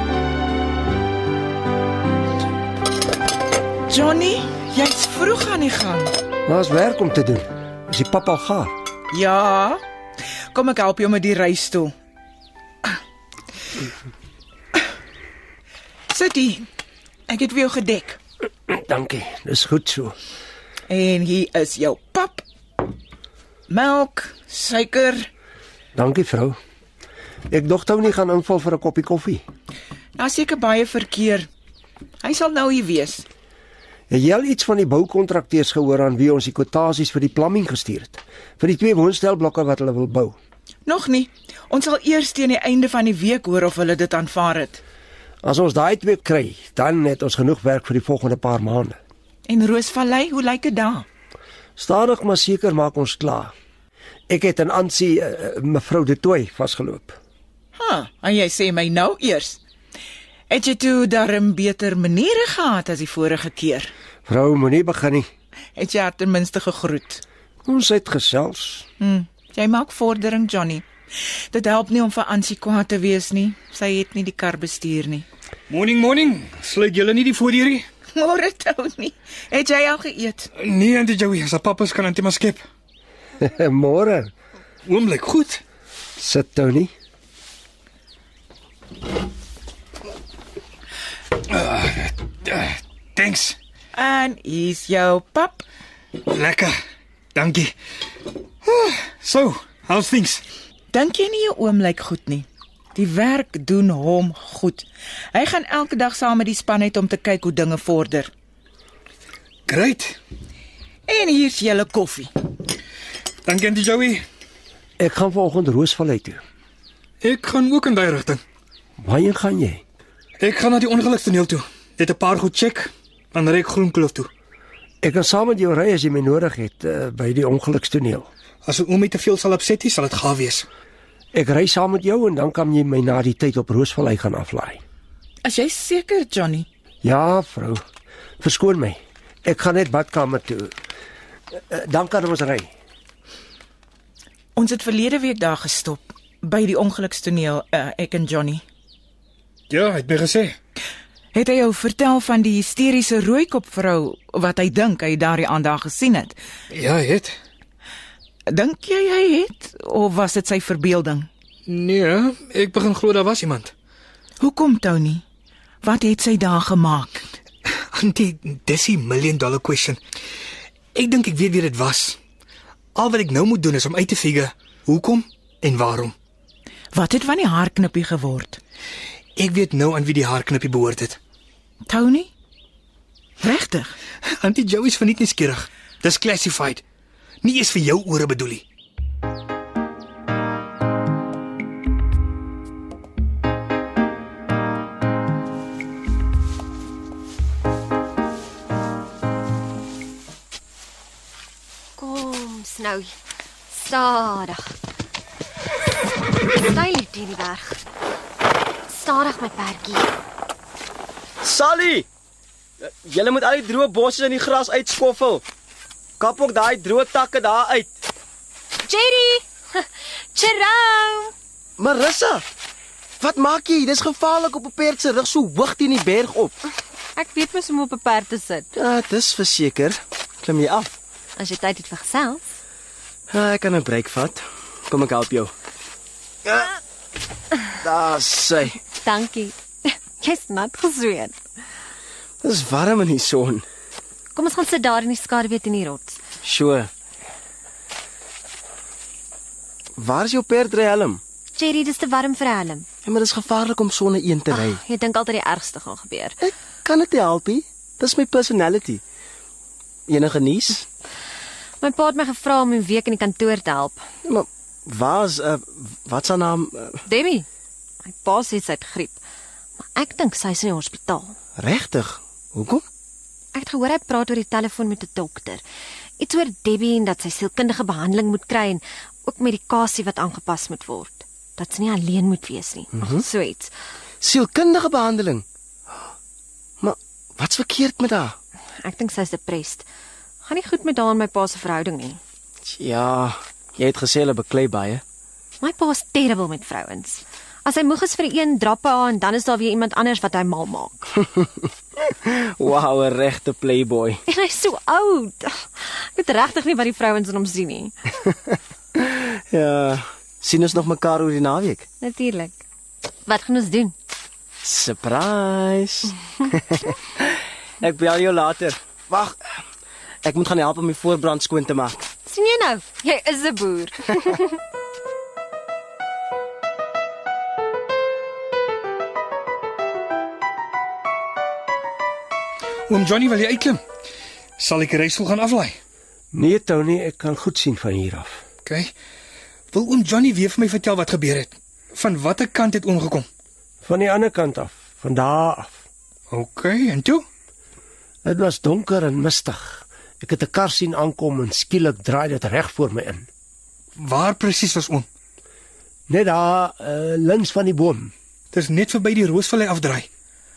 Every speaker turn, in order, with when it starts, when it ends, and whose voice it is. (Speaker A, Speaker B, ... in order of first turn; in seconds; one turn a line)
Speaker A: 3.9-6.1
Speaker B: 6.5-8.7
Speaker A: 9.1-9.8
Speaker A: 10.5-11.9
Speaker A: 16.1-16.7
Speaker A: 17.3-18.2
Speaker B: 18.7-20.1
Speaker A: 20.9-22.4
Speaker A: 23.7-25.3
Speaker B: 25.9-26.6
Speaker B: 27.5-29.4
Speaker A: 30.2-31.5
Speaker A: 32.2-33.3
Speaker B: 34.1-40.4
Speaker A: 40.9-44.8
Speaker B: 45.4-49.0
Speaker A: 49.5-51.0
Speaker B: 51.8-53.5
Speaker B: 54.3-57.2
Speaker A: 57.7-59.6
Speaker A: 60.5-63.9
Speaker B: 64.2-65.3
Speaker A: 65.8-67.2
Speaker B: 67.7-68.9
Speaker A: 69.0-70.8
Speaker A: 71.5-75.2
Speaker C: 75.7-77.8
Speaker A: 78.1-80.5
Speaker C: 80.6-82.6
Speaker B: 83.4-84.3
Speaker C: 84.8-85.6
Speaker B: 86.2-86.9
Speaker C: 91.5-93.6
Speaker A: 93.9-95.6
Speaker C: 96.3-96.7
Speaker C: 97.3-97.7
Speaker C: 98.6-100.4
Speaker A: 100.9-108.3
Speaker C: 109.7-110.2
Speaker A: 111.1-112.3
Speaker C: 113.5-114.2
Speaker B: 115.0-116.4
Speaker C: 117.2-118.4
Speaker B: 119.0-119.8
Speaker C: 120.4-124.3
Speaker B: 125.0-128.3
Speaker C: 128.6-130.7
Speaker B: 131.3-134.8
Speaker A: 135.4-136.7
Speaker B: 137.0-137.8
Speaker B: 138.4-140.7
Speaker B: 141.7-142.7
Speaker A: 144.6-148.6
Speaker C: 149.7-150.6
Speaker A: 151.3-156.4
Speaker C: 156.7-157.3
Speaker A: 158.5-161.3
Speaker C: 161.7-163.7
Speaker A: 164.4-165.2
Speaker A: 165.8-167.2
Speaker C: 167.9-170.0
Speaker C: 170.9-172.2
Speaker C: 172.9-176.1
Speaker A: 176.9-178.6
Speaker C: 179.4-181.2
Speaker A: 181.9-182.3
Speaker A: 183.4-183.9
Speaker C: 184.3-186.8
Speaker C: 187.4-188.6
Speaker D: 201.9-203.1
Speaker D: 203.7-204.7
Speaker D: 206.6-207.8
Speaker D: 208.9-210.1
Speaker E: 211.4-212.1
Speaker E: 212.8-215.4
Speaker E: 216.2-217.9
Speaker D: 218.8-221.3
Speaker E: 221.8-222.4
Speaker E: 223.2-226.6
Speaker D: 227.2-228.7
Speaker E: 228.7-230.9
Speaker D: 231.4-232.4
Speaker E: 233.3-235.5
Speaker E: 236.4-236.7
Speaker E: 237.8-238.8
Speaker D: 238.9-241.4
Speaker E: 242.4-243.6
Speaker D: 244.3-246.2
Speaker E: 246.4-246.9
Speaker E: 250.0-251.2
Speaker D: 251.5-252.9
Speaker E: 253.0-254.8
Speaker D: 254.5-256.4
Speaker E: 256.4-259.0
Speaker E: 260.1-260.9
Speaker D: 261.8-264.0
Speaker E: 264.2-267.0
Speaker D: 267.1-267.5
Speaker D: 268.1-269.2
Speaker D: 269.8-271.4
Speaker E: 271.6-272.8
Speaker D: 273.6-275.6
Speaker D: 276.2-283.7
Speaker E: 284.2-285.4
Speaker E: 286.8-288.4
Speaker D: 288.8-289.9
Speaker D: 290.4-292.2
Speaker E: 292.6-295.0
Speaker D: 295.6-301.1
Speaker E: 302.1-304.2
Speaker D: 304.3-308.0
Speaker E: 309.0-311.9
Speaker D: 312.0-312.6
Speaker D: 313.2-313.9
Speaker E: 314.6-316.1
Speaker E: 317.8-319.4
Speaker E: 320.2-322.1
Speaker D: 322.2-324.5
Speaker C: 332.9-333.8
Speaker C: 334.6-335.8
Speaker B: 336.3-338.4
Speaker C: 338.7-338.9
Speaker C: 339.7-343.3
Speaker B: 343.8-345.8
Speaker C: 346.3-347.2
Speaker B: 348.2-353.3
Speaker C: 354.0-355.1
Speaker B: 356.1-358.1
Speaker C: 358.5-360.1